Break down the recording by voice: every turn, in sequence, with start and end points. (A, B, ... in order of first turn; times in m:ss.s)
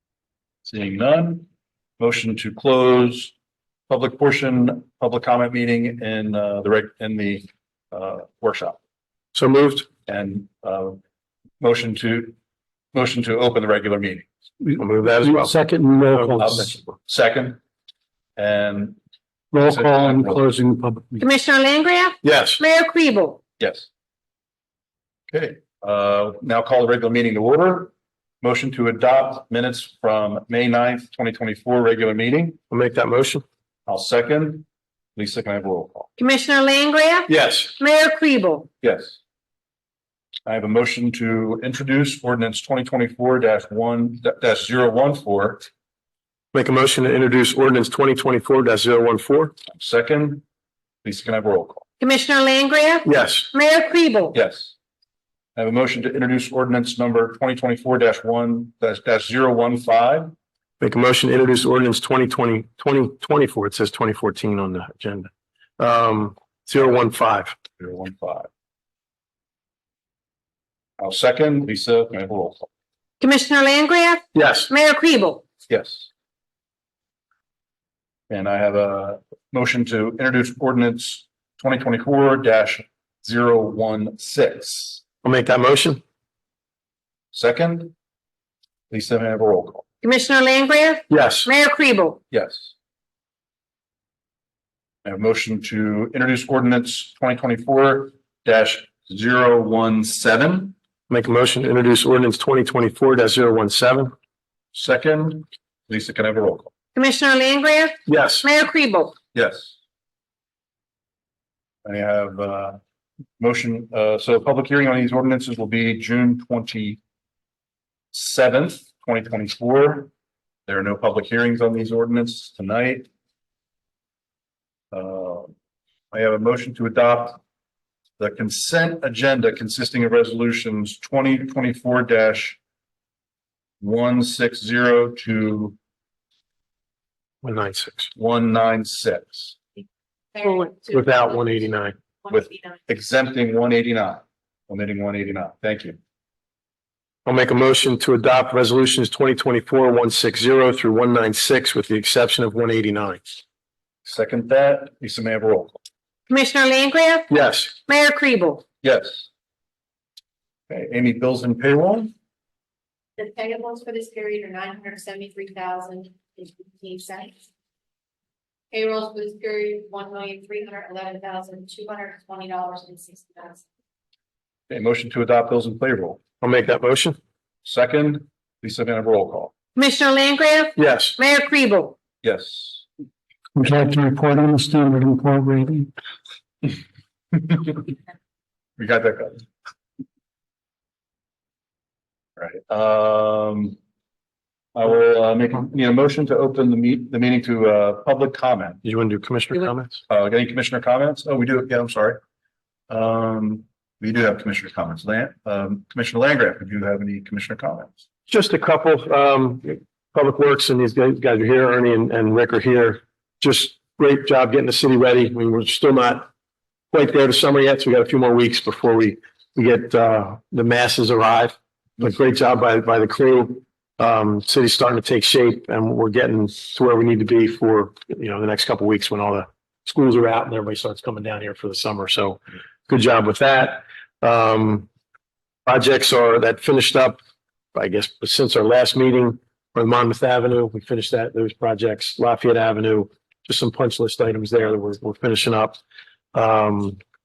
0:00.6-0:01.5 A
0:02.0-0:03.3 A
0:03.9-0:08.8 A
0:09.3-0:09.9 B
0:10.1-0:11.0 A
0:11.6-0:12.4 A
0:12.9-0:14.3 A
0:14.8-0:15.6 B
0:15.0-0:16.8 C
0:16.4-0:17.6 A
0:18.4-0:19.0 A
0:19.5-0:21.2 C
0:19.6-0:20.4 A
0:21.2-0:23.4 D
0:22.2-0:22.6 B
0:23.6-0:23.9 A
0:25.3-0:32.6 A
0:32.7-0:33.4 B
0:33.9-0:34.6 A
0:35.2-0:36.1 A
0:36.2-0:38.7 D
0:37.3-0:37.8 B
0:38.8-0:39.2 A
0:40.5-0:45.7 A
0:46.5-0:49.5 B
0:49.7-0:50.4 A
0:51.0-0:51.8 A
0:52.0-0:54.4 D
0:53.0-0:53.5 B
0:54.3-0:54.7 A
0:55.6-1:00.3 A
1:00.8-1:07.6 B
1:07.8-1:08.5 A
1:11.0-1:12.7 A
1:13.2-1:15.4 D
1:14.3-1:14.7 B
1:15.7-1:16.1 A
1:18.3-1:25.0 A
1:25.2-1:26.0 B
1:27.3-1:27.9 A
1:28.9-1:29.8 A
1:30.0-1:32.2 D
1:31.1-1:31.5 B
1:32.3-1:32.7 A
1:35.0-1:40.7 A
1:41.1-1:44.1 B
1:44.7-1:46.7 A
1:47.0-1:49.2 D
1:48.1-1:48.5 B
1:49.3-1:49.8 A
1:51.8-1:52.8 A
1:53.4-1:57.0 A
1:58.1-2:00.1 A
2:00.7-2:03.1 A
2:04.9-2:05.5 A
2:06.1-2:07.4 A
2:08.2-2:12.6 A
2:13.8-2:15.8 A
2:17.4-2:18.1 B
2:18.2-2:19.6 A
2:20.3-2:23.0 E
2:20.4-2:22.0 B
2:22.3-2:26.0 A
2:27.2-2:33.2 B
2:34.0-2:35.8 A
2:36.3-2:38.6 D
2:37.3-2:37.8 B
2:38.8-2:39.3 A
2:40.7-2:42.1 A
2:43.2-2:47.5 E
2:48.7-2:53.6 E
2:54.7-2:56.2 A
2:56.4-2:57.2 B
2:57.6-2:59.5 A
2:59.8-3:02.0 D
3:00.8-3:01.2 B
3:02.2-3:02.8 A
3:03.6-3:05.9 C
3:07.3-3:07.9 A
3:08.8-3:09.4 A
3:12.4-3:13.8 A
3:14.8-3:18.8 A
3:18.8-3:20.0 B
3:20.1-3:22.2 A
3:22.9-3:28.0 A
3:28.3-3:36.3 B
3:36.9-3:54.9 B
3:55.7-3:57.2 B
3:57.7-4:05.8 B
4:06.3-4:07.0 B